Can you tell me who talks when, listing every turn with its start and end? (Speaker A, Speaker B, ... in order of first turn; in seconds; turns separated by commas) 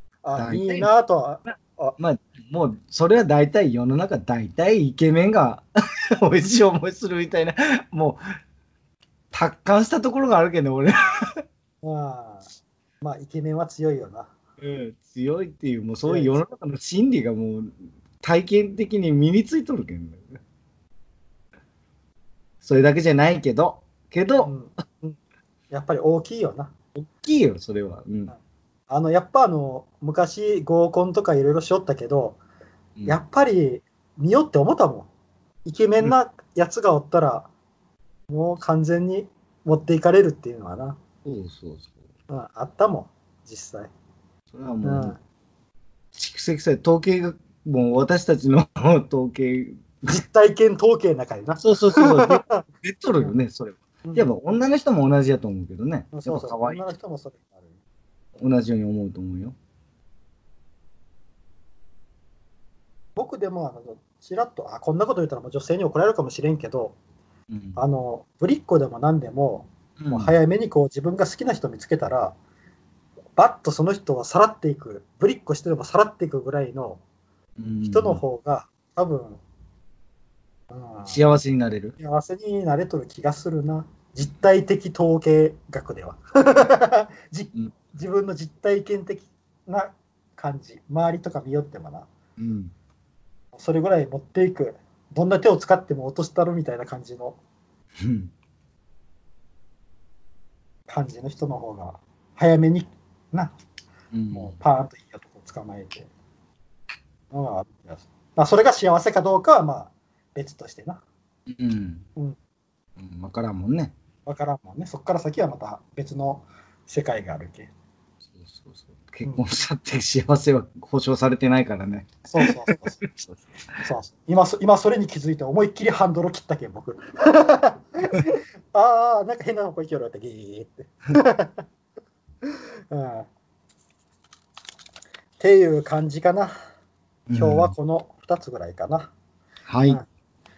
Speaker A: 0.2-1.9, Speaker B: 0.3-0.9, Speaker B: 2.0-8.2, Speaker B: 9.3-11.2, Speaker A: 11.8-12.4, Speaker A: 13.0-14.3, Speaker B: 14.6-20.4, Speaker A: 16.0-16.5, Speaker B: 22.6-24.5, Speaker A: 24.4-25.2, Speaker A: 25.7-26.7, Speaker B: 26.9-28.3, Speaker A: 28.9-32.4, Speaker A: 33.0-35.1, Speaker A: 35.6-37.5, Speaker A: 38.3-41.0, Speaker B: 41.2-42.0, Speaker A: 42.3-43.9, Speaker B: 44.5-45.1, Speaker A: 44.8-45.2, Speaker B: 46.1-50.1, Speaker A: 50.0-52.6, Speaker B: 51.6-56.8, Speaker A: 54.0-54.4, Speaker A: 56.1-57.8, Speaker B: 58.4-59.5, Speaker A: 63.2-67.0, Speaker B: 67.5-67.8, Speaker A: 67.8-72.4, Speaker B: 70.0-70.3, Speaker A: 73.4-77.0, Speaker B: 77.6-78.2, Speaker A: 77.8-79.4, Speaker A: 80.7-81.2, Speaker B: 81.1-82.0, Speaker A: 82.0-92.1, Speaker B: 92.4-92.7, Speaker A: 93.5-97.4, Speaker B: 98.0-98.3, Speaker A: 100.9-103.5, Speaker B: 104.1-104.5, Speaker A: 104.3-106.1, Speaker A: 107.3-111.0, Speaker B: 111.5-112.0, Speaker B: 113.0-113.9, Speaker A: 114.2-117.7, Speaker B: 118.2-123.8, Speaker A: 122.3-123.0, Speaker A: 123.8-131.6, Speaker A: 132.4-133.3, Speaker A: 135.4-136.5, Speaker B: 137.3-137.7, Speaker A: 137.3-139.1, Speaker B: 139.7-140.0